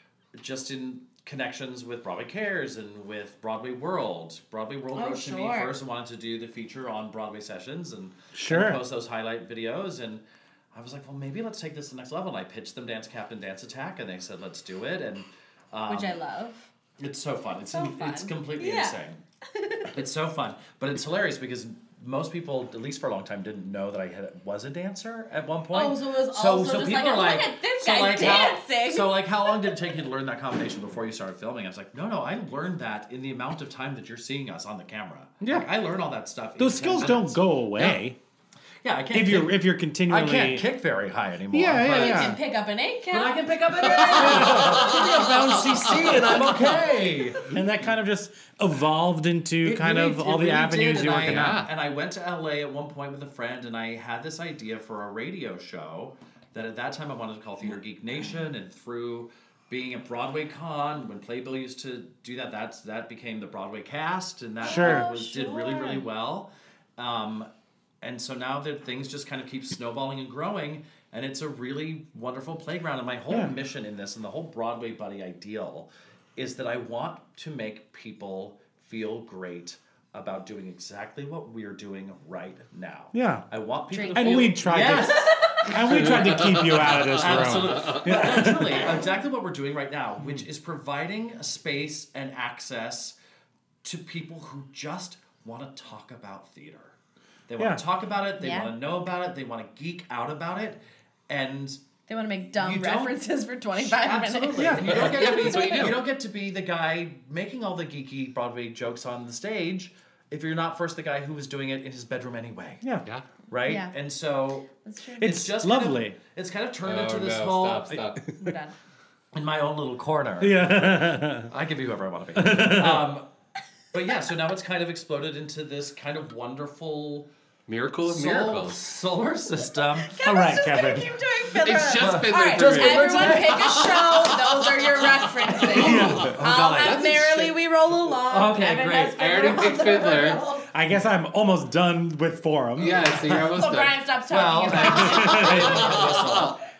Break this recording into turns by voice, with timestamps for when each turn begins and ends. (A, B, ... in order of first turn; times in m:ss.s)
0:00.3-0:10.2 A
0:04.9-0:05.7 B
0:08.3-0:08.8 C
0:10.7-0:16.2 A
0:15.9-0:16.7 B
0:17.0-0:19.2 A
0:17.7-0:19.0 B
0:19.5-0:19.9 B
0:19.9-0:38.0 A
0:25.7-0:29.8 B
0:35.4-0:35.7 C
0:36.6-0:38.2 C
0:38.8-0:42.4 A
0:39.1-0:40.6 C
0:41.5-0:42.4 C
0:41.8-0:45.0 B
0:43.1-0:47.5 A
0:44.2-0:45.0 C
0:47.5-0:51.6 C
0:49.6-1:07.5 A
0:51.1-0:51.7 D
1:04.6-1:06.1 B
1:04.6-1:05.1 C
1:08.0-1:25.3 A
1:23.1-1:23.4 C
1:23.9-1:25.6 B
1:24.1-1:28.9 C
1:25.8-1:28.4 D
1:27.2-1:33.2 A
1:33.8-1:37.0 A
1:37.5-1:41.8 A
1:38.4-1:38.7 B
1:42.1-1:45.9 B
1:42.6-1:43.2 A
1:43.8-1:52.8 A
1:44.6-1:44.9 C
1:44.8-1:46.0 D
1:53.5-1:54.7 A
1:53.6-1:53.9 B
1:54.8-1:55.4 B
1:55.2-1:56.2 C
1:55.2-1:58.0 A
1:56.8-1:58.2 D
1:58.3-1:58.5 C
1:58.4-1:58.7 B
1:59.3-2:03.3 A
2:00.4-2:01.5 C
2:02.3-2:03.1 C
2:03.9-2:07.3 A
2:07.7-2:08.8 D
2:08.0-2:10.1 A
2:10.0-2:20.7 B
2:10.2-2:11.1 C
2:11.5-2:17.5 D
2:12.0-2:14.0 A
2:15.7-2:16.4 C
2:15.7-2:17.5 A
2:18.3-2:19.7 A
2:19.1-2:20.4 D
2:20.7-2:23.1 C
2:22.8-2:24.0 D
2:23.4-2:26.1 B
2:24.3-2:26.6 A
2:24.9-2:25.7 C
2:25.3-2:26.5 D